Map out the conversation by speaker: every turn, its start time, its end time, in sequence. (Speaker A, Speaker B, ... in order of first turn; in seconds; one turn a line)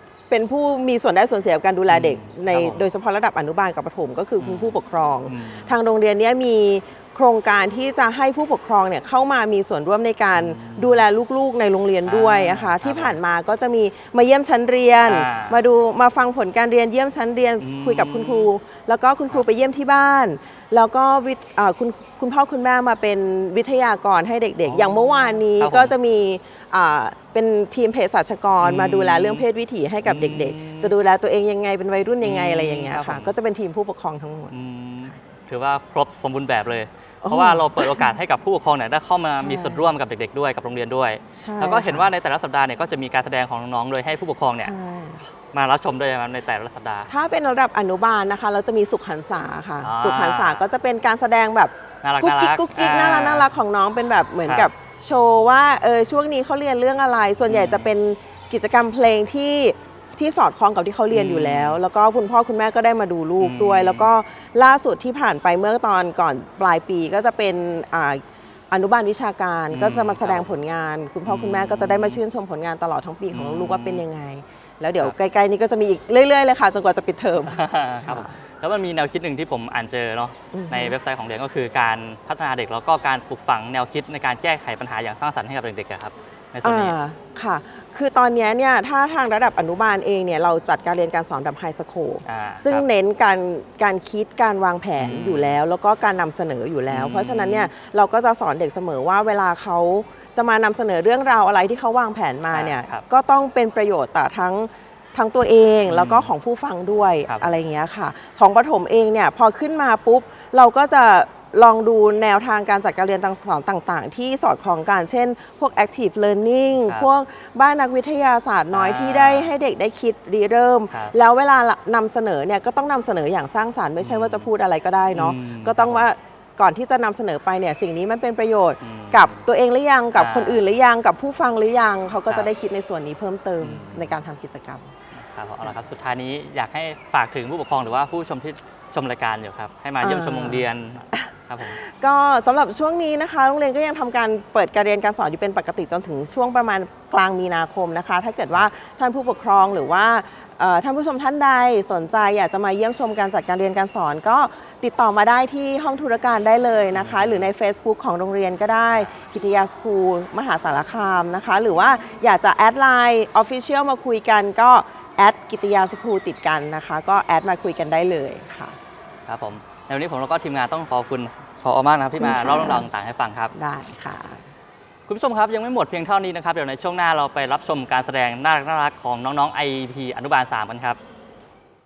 Speaker A: 0.3-34.6
Speaker B: 1.9-2.9
Speaker B: 4.4-5.8
Speaker B: 10.3-11.0
Speaker B: 12.1-13.2
Speaker B: 15.0-15.6
Speaker B: 17.6-18.5
Speaker B: 24.6-25.9
Speaker B: 28.6-29.5
Speaker B: 30.0-30.9
Speaker B: 32.2-33.3
Speaker B: 34.5-44.7
Speaker A: 37.2-38.1
Speaker A: 39.4-39.9
Speaker A: 41.3-42.1
Speaker A: 44.6-45.2
Speaker B: 45.4-47.1
Speaker A: 47.1-78.4
Speaker B: 49.8-50.6
Speaker B: 52.0-53.5
Speaker B: 57.5-57.9
Speaker B: 61.1-61.8
Speaker B: 63.4-64.1
Speaker B: 69.7-70.5
Speaker B: 71.2-72.2
Speaker B: 73.3-74.1
Speaker B: 77.5-87.0
Speaker A: 80.5-81.0
Speaker A: 86.6-134.9
Speaker B: 92.3-92.9
Speaker B: 95.0-95.6
Speaker B: 96.9-97.7
Speaker B: 102.5-103.0
Speaker B: 105.9-106.3
Speaker B: 107.3-107.5
Speaker B: 118.7-119.5
Speaker B: 124.0-124.5
Speaker B: 125.1-126.1
Speaker B: 128.8-129.4
Speaker B: 130.1-130.7
Speaker B: 133.6-134.2
Speaker B: 135.1-141.8
Speaker A: 140.0-140.7
Speaker A: 141.8-168.8
Speaker B: 156.9-157.5
Speaker B: 169.3-173.5
Speaker A: 172.2-172.9
Speaker A: 173.5-174.4
Speaker B: 175.1-181.0